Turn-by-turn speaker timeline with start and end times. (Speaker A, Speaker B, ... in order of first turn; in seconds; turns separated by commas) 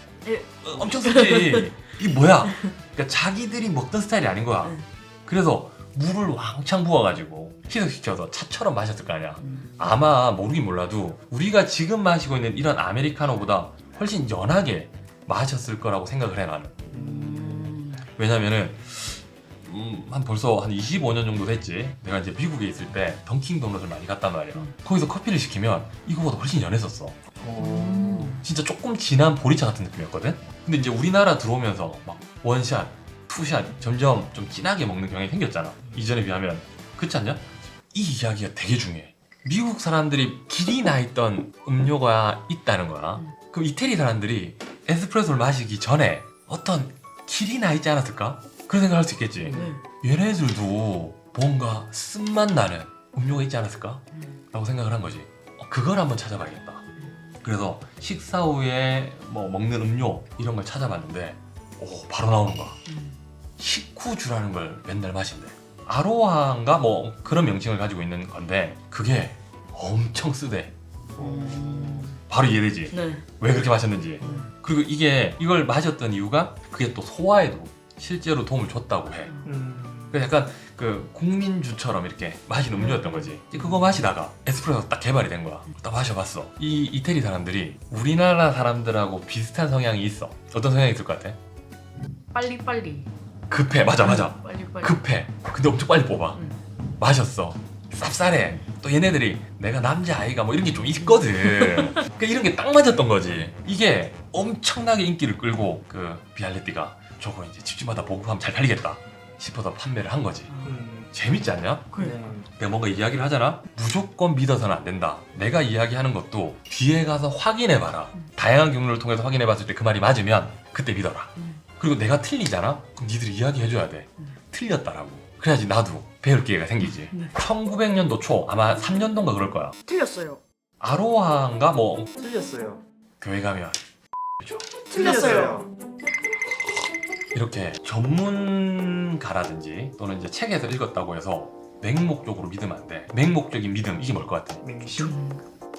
Speaker A: 0.2-1.7, Speaker B: 0.6-16.8, Speaker A: 2.5-2.7, Speaker A: 9.4-9.7, Speaker C: 16.9-17.7, Speaker A: 16.9-18.1, Speaker B: 18.1-27.2, Speaker C: 27.4-28.4, Speaker A: 27.6-28.4, Speaker B: 28.4-56.8, Speaker C: 49.4-49.7, Speaker A: 49.5-49.8, Speaker B: 57.4-62.8, Speaker A: 62.9-63.1, Speaker B: 63.6-70.7, Speaker C: 71.1-72.1, Speaker A: 71.2-72.2, Speaker B: 72.3-79.3, Speaker A: 72.9-73.2, Speaker C: 74.2-74.5, Speaker C: 79.4-80.2, Speaker B: 80.1-91.4, Speaker A: 82.8-83.3, Speaker A: 92.3-93.1, Speaker B: 93.5-96.4, Speaker A: 94.0-95.0, Speaker B: 96.9-110.5, Speaker A: 100.8-102.0, Speaker A: 110.5-110.8, Speaker C: 110.6-111.1, Speaker B: 111.1-111.9, Speaker A: 111.9-112.3, Speaker C: 111.9-112.5, Speaker B: 112.5-129.7, Speaker A: 121.4-121.6, Speaker A: 127.0-127.3, Speaker A: 129.8-130.4, Speaker B: 130.8-132.1, Speaker C: 132.2-132.8, Speaker B: 133.2-133.8, Speaker A: 134.9-135.7, Speaker C: 134.9-135.7, Speaker B: 137.3-144.8, Speaker C: 144.6-145.2, Speaker A: 145.0-145.4